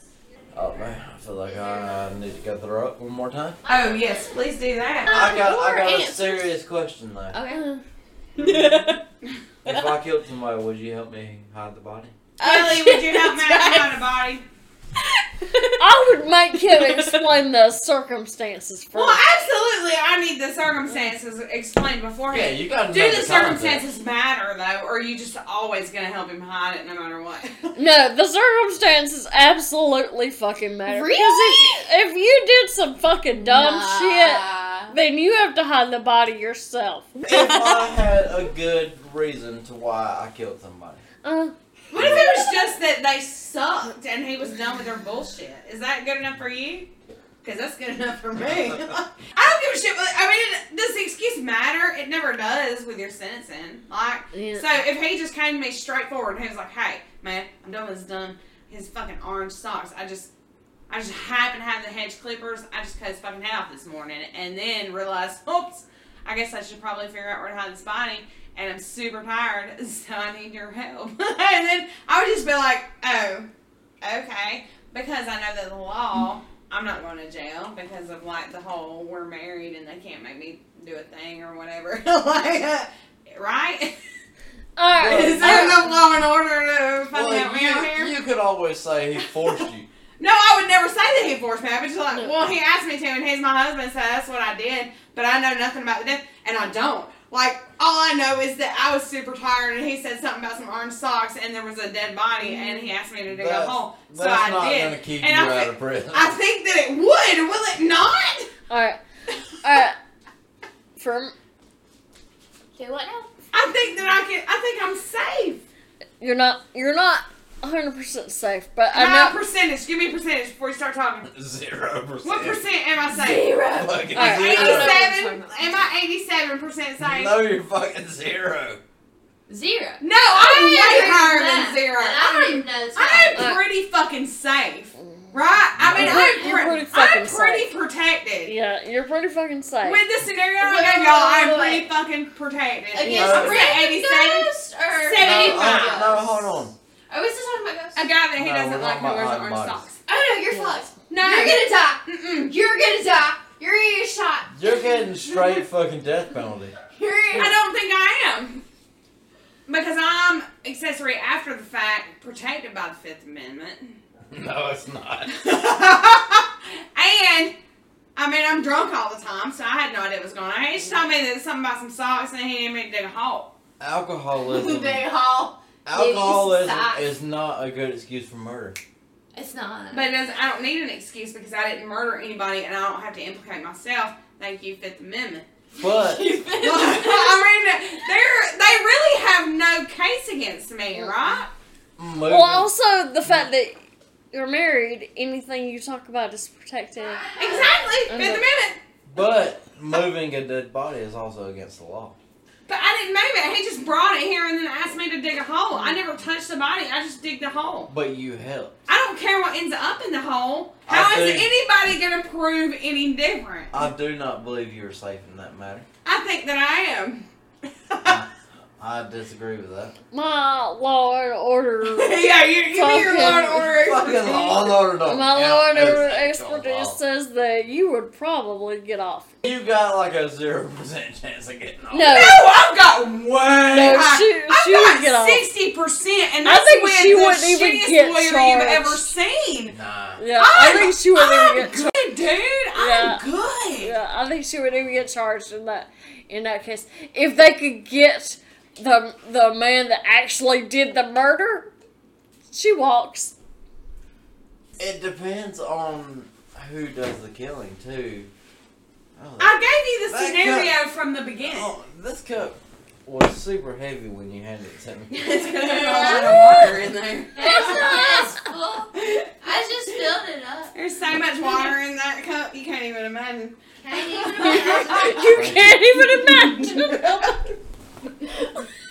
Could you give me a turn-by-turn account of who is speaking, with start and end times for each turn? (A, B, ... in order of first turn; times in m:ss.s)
0:00.5-0:03.6 A
0:03.6-0:04.2 B
0:03.7-0:05.3 C
0:05.1-0:07.4 A
0:05.1-0:06.4 B
0:07.3-0:07.8 B
0:08.4-0:09.0 B
0:09.6-0:12.1 A
0:12.4-0:14.0 B
0:12.4-0:14.4 C
0:15.4-0:15.9 B
0:15.8-0:19.2 D
0:16.6-0:17.3 B
0:18.9-0:27.7 C
0:22.3-0:23.9 A
0:27.8-0:37.7 D
0:30.9-0:31.8 B
0:33.4-0:34.9 B
0:37.2-0:41.0 A
0:41.2-0:41.6 D
0:41.9-0:46.9 C
0:42.0-0:42.2 A
0:47.4-1:00.3 C
0:48.4-0:48.8 A
0:54.3-0:54.7 D
1:00.9-1:13.5 C
1:14.0-1:23.9 C
1:24.8-1:26.0 D
1:25.0-1:25.8 A
1:25.0-1:28.1 C
1:27.1-1:29.9 A
1:30.2-1:48.5 C
1:32.1-1:32.4 D
1:43.3-1:46.4 A
1:48.7-1:49.0 D
1:49.6-1:50.0 D
1:51.0-1:51.3 D
1:52.8-1:53.3 B
1:53.5-1:55.6 C
1:56.2-1:59.4 D
1:58.9-2:01.3 C
2:01.2-2:02.6 A
2:02.2-2:03.5 C
2:03.1-2:05.9 B
2:03.2-2:05.0 A
2:04.1-2:04.7 D
2:04.1-2:07.4 C
2:07.0-2:08.8 A
2:09.5-2:13.5 B
2:10.0-2:18.5 C
2:13.3-2:13.6 D
2:15.0-2:15.3 D
2:15.8-2:16.4 A
2:15.9-2:17.7 D
2:16.4-2:16.6 B
2:18.5-2:20.0 D
2:19.8-2:26.2 C
2:20.6-2:21.9 B
2:22.9-2:26.6 B
2:23.1-2:23.7 A
2:23.1-2:23.5 D
2:25.2-2:26.7 A
2:27.1-2:28.0 B
2:28.0-2:30.0 C
2:28.4-2:29.9 A
2:30.1-2:35.5 B
2:30.5-2:30.8 D
2:31.1-2:32.5 C
2:34.5-2:36.8 A
2:36.9-2:37.5 B
2:37.3-2:38.6 C
2:39.7-2:44.0 C
2:44.3-2:45.3 A
2:45.3-2:47.5 C
2:48.2-2:53.5 C
2:53.8-2:55.1 A
2:54.4-2:57.1 B
2:55.9-2:58.8 A
2:59.3-3:00.0 B
2:59.9-3:05.5 C
3:05.7-3:07.5 B
3:05.8-3:06.2 A
3:06.6-3:11.5 C
3:12.0-3:12.7 A
3:12.3-3:13.8 D
3:14.3-3:17.3 D
3:17.2-3:17.7 B
3:17.4-3:19.2 C
3:18.1-3:18.4 D
3:19.1-3:22.2 A
3:22.7-3:27.9 C
3:27.9-3:28.8 A
3:28.9-3:33.9 C
3:30.9-3:31.5 A
3:33.7-3:35.9 A
3:36.0-3:37.3 C
3:37.9-3:38.2 C
3:38.0-3:40.0 A
3:40.1-3:43.7 D
3:41.8-3:44.8 C
3:43.1-3:47.0 A
3:45.0-3:49.3 D
3:49.4-3:52.3 A
3:51.9-3:52.4 D
3:52.1-3:59.8 C
3:53.7-3:55.5 D
3:56.4-3:59.1 D
3:59.7-4:00.2 A
4:00.2-4:01.9 D
4:00.4-4:03.9 C
4:02.8-4:03.2 D
4:03.8-4:11.7 D
4:12.5-4:13.3 D
4:14.8-4:18.3 A
4:19.2-4:19.6 A
4:19.4-4:21.7 C
4:20.1-4:20.8 A
4:21.4-4:25.1 A
4:25.1-4:28.3 C
4:25.8-4:26.3 B
4:25.9-4:26.7 A
4:27.4-4:30.7 B
4:27.4-4:28.4 D
4:29.0-4:29.3 C
4:30.7-4:35.4 C
4:33.8-4:35.1 B
4:34.4-4:37.4 D
4:35.3-4:35.8 A
4:36.0-4:37.3 C
4:38.4-4:38.6 D